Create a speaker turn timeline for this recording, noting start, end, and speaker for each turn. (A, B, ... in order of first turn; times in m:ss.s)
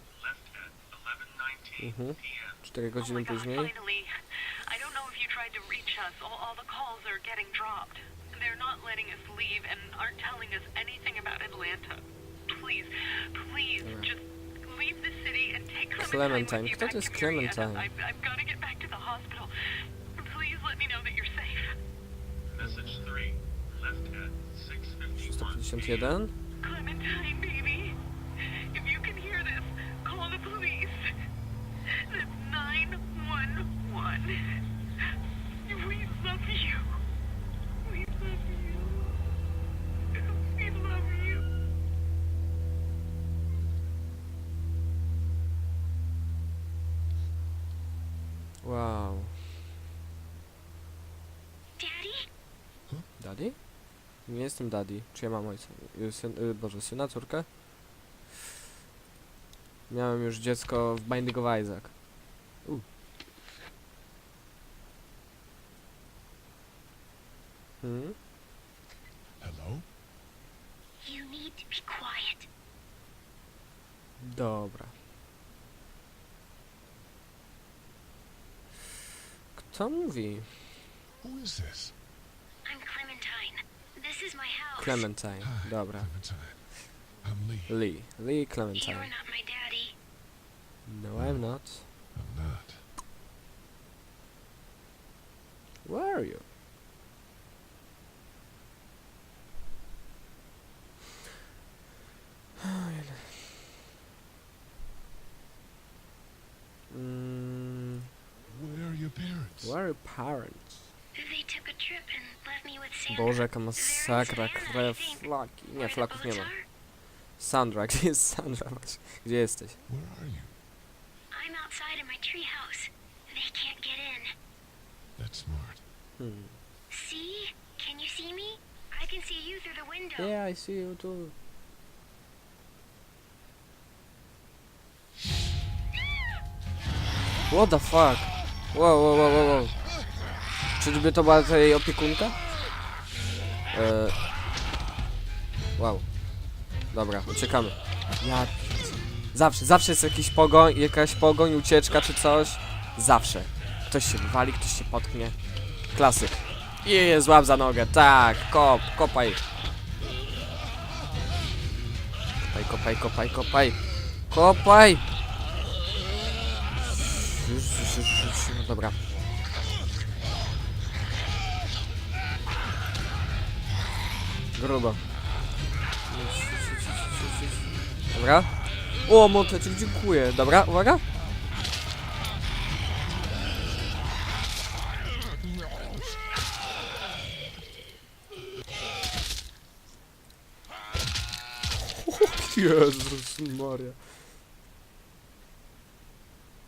0:00.2-0:02.2 A
0:01.8-0:03.7 B
0:03.0-0:04.1 C
0:04.7-0:19.5 C
0:13.8-0:14.1 B
0:16.0-0:17.9 B
0:20.2-0:21.8 C
0:22.6-0:25.5 A
0:25.2-0:26.3 B
0:26.6-0:31.1 C
0:31.9-0:34.4 C
0:35.7-0:36.9 C
0:37.8-0:39.2 C
0:40.1-0:41.5 C
0:48.6-0:49.4 B
0:51.8-0:52.2 D
0:53.2-0:53.6 B
0:54.2-0:57.5 B
0:59.9-1:02.0 B
1:07.8-1:08.2 B
1:09.4-1:09.9 E
1:11.0-1:12.5 D
1:14.2-1:14.9 B
1:19.6-1:20.8 B
1:21.2-1:22.0 E
1:22.6-1:25.1 D
1:24.8-1:26.1 B
1:25.4-1:27.8 E
1:27.7-1:29.1 B
1:28.8-1:29.9 D
1:30.9-1:31.9 B
1:31.2-1:32.9 E
1:35.8-1:36.4 B
1:42.6-1:43.3 B
1:46.9-1:48.0 B
1:48.5-1:49.8 E
1:49.6-1:50.8 B
1:51.1-1:56.6 D
1:53.1-1:56.5 B
1:57.4-1:59.8 B
1:59.9-2:00.5 E
2:01.3-2:04.3 D
2:05.2-2:05.8 E
2:06.2-2:06.6 B
2:06.9-2:10.3 D
2:10.2-2:11.3 B
2:17.5-2:19.8 B
2:20.8-2:22.4 B
2:23.7-2:24.2 B
2:25.8-2:26.1 B
2:26.9-2:35.4 B
2:35.9-2:39.4 B
2:42.5-2:45.0 B
2:47.3-2:49.0 B
2:54.5-2:55.0 B
2:56.1-3:01.0 B
3:12.0-3:14.0 B